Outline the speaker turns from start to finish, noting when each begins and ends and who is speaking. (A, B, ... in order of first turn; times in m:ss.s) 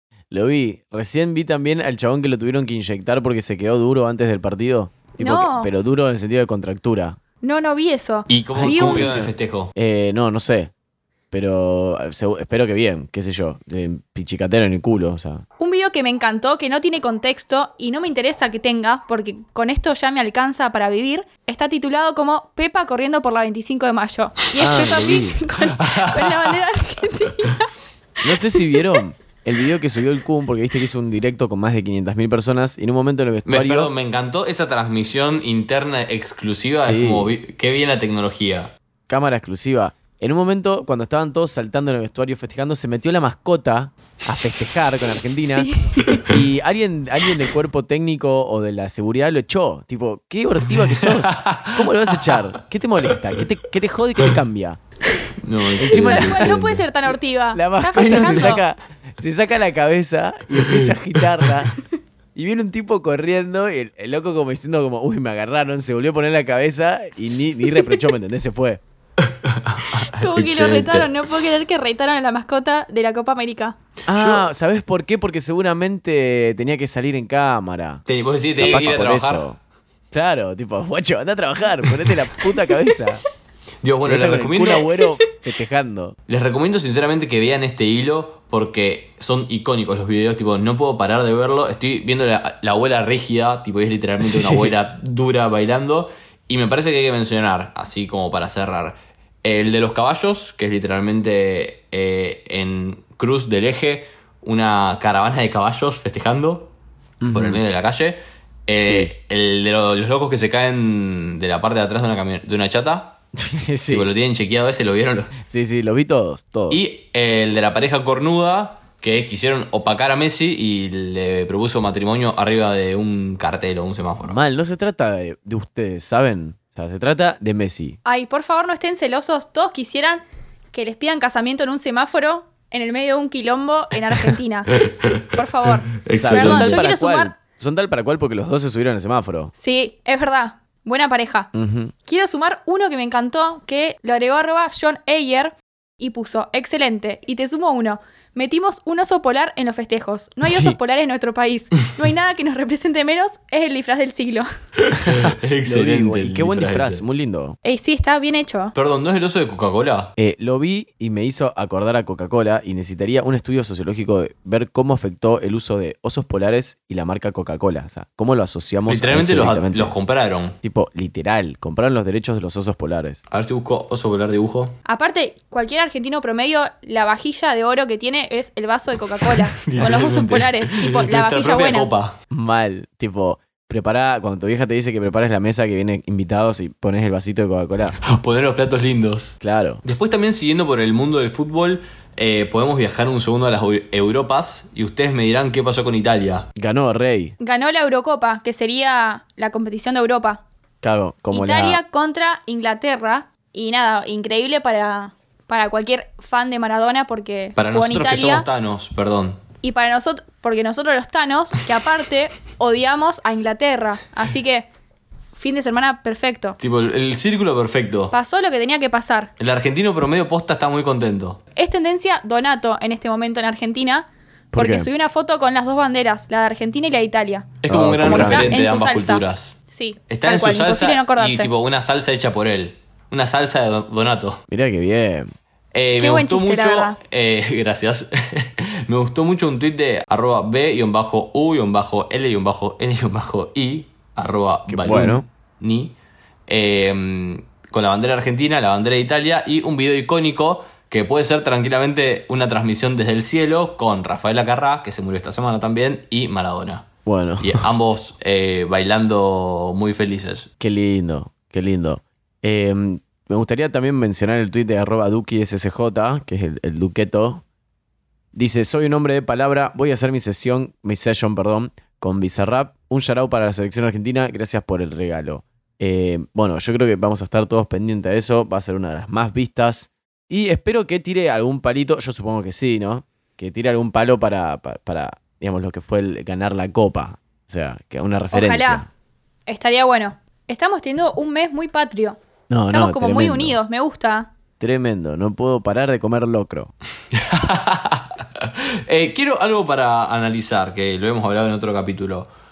0:00.3-0:07.2 A
0:05.2-0:05.7 B
0:07.4-0:09.2 B
0:08.3-0:09.7 C
0:08.6-0:10.7 A
0:11.3-0:15.4 A
0:15.6-0:27.7 B
0:24.6-0:25.4 A
0:25.8-0:26.6 C
0:28.2-0:33.9 A
0:28.5-0:28.8 B
0:33.4-0:38.7 C
0:36.7-0:37.3 A
0:39.1-0:45.7 A
0:45.4-0:46.2 B
0:46.2-0:54.8 A
0:50.7-0:52.5 C
0:55.4-0:56.6 C
0:55.8-0:56.8 A
0:55.9-0:58.6 B
0:57.5-1:01.7 A
0:58.0-0:58.5 C
1:00.6-1:01.7 C
1:02.3-1:08.8 A
1:09.2-1:11.1 C
1:10.0-1:13.8 B
1:14.1-1:18.0 A
1:14.1-1:14.4 C
1:18.1-1:19.4 C
1:18.6-1:19.6 A
1:20.1-1:23.2 A
1:23.8-1:24.9 C
1:24.0-1:26.2 A
1:26.3-1:46.7 C
1:34.2-1:34.7 A
1:47.2-1:47.6 A
1:47.3-1:53.2 C
1:48.8-1:49.1 A
1:53.3-1:54.1 A
1:53.9-1:55.4 C
1:55.4-1:56.8 A
1:56.7-2:04.4 C
2:04.2-2:08.0 A
2:08.0-2:10.2 B
2:10.7-2:14.7 B
2:14.7-2:16.8 C
2:15.3-2:17.3 B
2:16.2-2:19.5 A
2:19.6-2:21.5 B
2:21.5-2:21.9 A
2:22.0-2:34.5 B
2:30.4-2:30.8 A
2:34.8-2:37.0 C
2:35.0-2:37.6 A
2:37.6-2:38.7 B
2:38.7-2:40.1 C
2:40.2-2:49.9 A
2:48.9-2:50.6 C
2:50.6-2:53.2 A
2:53.3-2:54.7 C
2:54.8-3:01.9 B
2:59.4-3:02.1 C
3:02.3-3:08.0 A
3:08.0-3:16.5 C
3:09.4-3:09.8 A
3:16.6-3:17.3 A
3:17.4-3:20.4 B
3:20.8-3:21.8 A
3:21.3-3:28.5 B
3:27.6-3:29.4 C
3:29.6-3:34.7 B
3:35.3-3:36.6 B
3:36.6-3:38.1 C
3:38.1-3:39.3 B
3:39.4-3:41.4 C
3:41.6-3:51.5 B
3:44.5-3:44.9 A
3:47.6-3:49.6 C
3:47.7-3:48.5 A
3:50.1-3:54.4 C
3:54.5-3:55.3 A
3:55.7-4:05.9 C
3:56.0-3:57.0 B
4:04.7-4:05.2 A
4:06.5-4:16.9 C
4:17.0-4:17.7 A
4:17.4-4:20.5 C
4:20.6-4:27.4 A
4:28.3-4:48.9 A
4:48.3-4:48.8 B
4:49.5-4:52.2 B
4:52.5-4:53.6 A
4:52.7-4:54.3 B
4:54.6-4:56.7 A
4:57.1-5:02.3 C